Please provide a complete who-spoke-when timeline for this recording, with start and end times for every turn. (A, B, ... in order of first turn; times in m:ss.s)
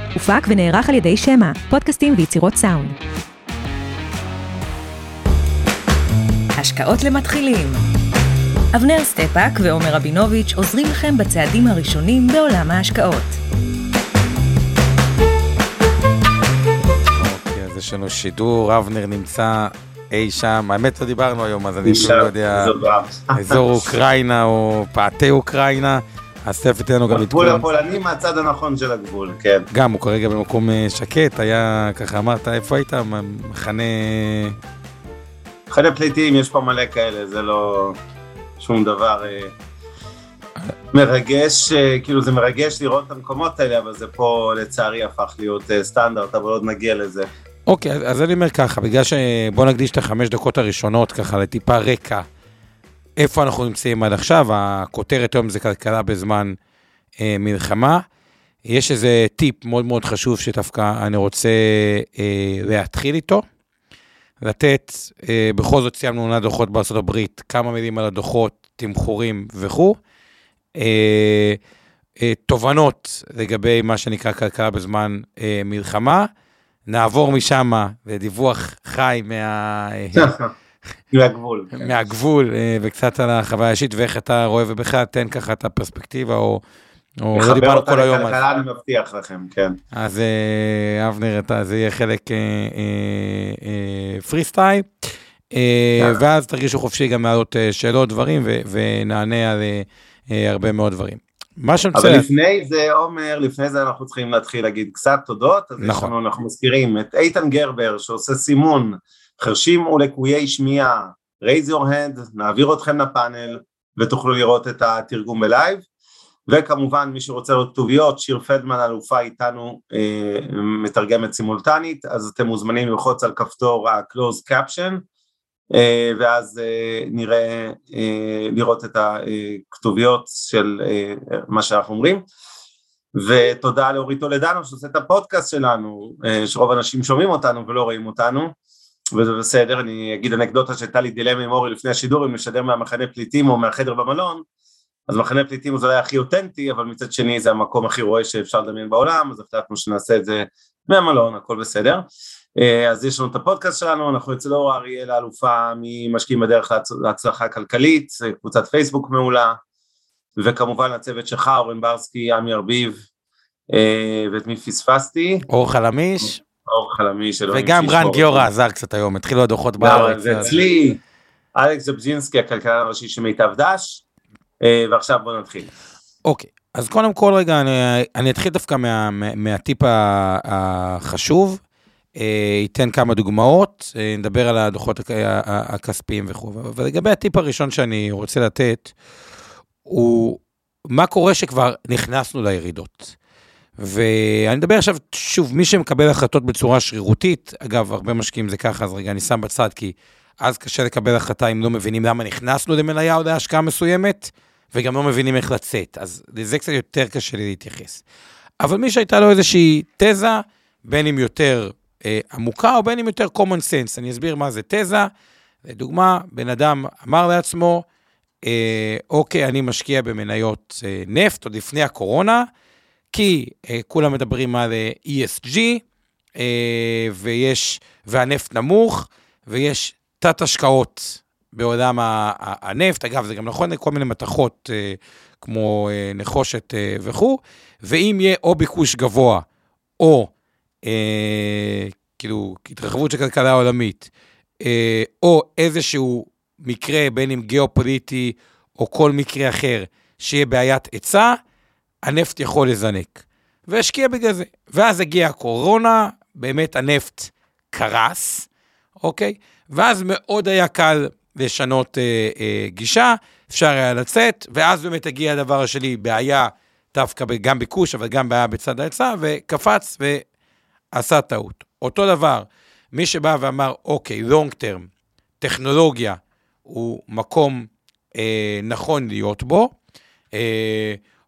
0:00.2-0:03.0 A
0:06.6-0:07.8 A
0:08.7-0:13.4 A
0:17.1-0:22.7 B
0:21.8-0:23.8 C
0:23.3-0:27.6 B
0:27.1-0:29.7 C
0:29.7-0:34.6 B
0:35.7-0:38.0 C
0:38.6-0:39.5 C
0:40.9-0:47.3 C
0:47.7-0:52.3 B
0:53.2-0:56.6 B
0:57.2-0:58.0 B
0:58.6-1:03.4 B
1:04.4-1:10.0 B
1:10.8-1:11.6 B
1:12.2-1:16.3 B
1:16.9-1:20.4 B
1:20.2-1:20.5 C
1:21.1-1:21.9 C
1:21.8-1:26.6 B
1:27.2-1:28.4 B
1:27.3-1:29.8 C
1:29.9-1:42.3 B
1:42.0-1:55.8 C
1:45.8-1:46.1 B
1:56.5-2:05.0 C
2:05.7-2:12.2 C
2:13.2-2:18.5 C
2:19.1-2:24.4 C
2:25.1-2:32.0 C
2:32.6-2:39.6 C
2:40.4-2:43.0 C
2:43.7-2:45.5 C
2:45.5-2:46.4 B
2:46.6-2:48.5 C
2:47.5-2:50.6 B
2:49.8-2:51.0 C
2:51.6-2:54.0 C
2:54.6-2:55.7 C
2:56.2-3:01.6 B
3:02.2-3:08.9 B
3:09.8-3:13.2 B
3:13.8-3:28.0 B
3:28.6-3:35.1 B
3:35.6-3:37.8 B
3:38.4-3:42.5 B
3:43.1-3:45.8 B
3:46.4-3:59.4 B
4:00.0-4:00.3 B
4:00.8-4:04.1 B
4:04.6-4:11.4 B
4:12.0-4:18.5 B
4:19.0-4:30.2 B
4:30.9-4:34.9 B
4:35.4-4:39.7 B
4:40.3-4:41.0 B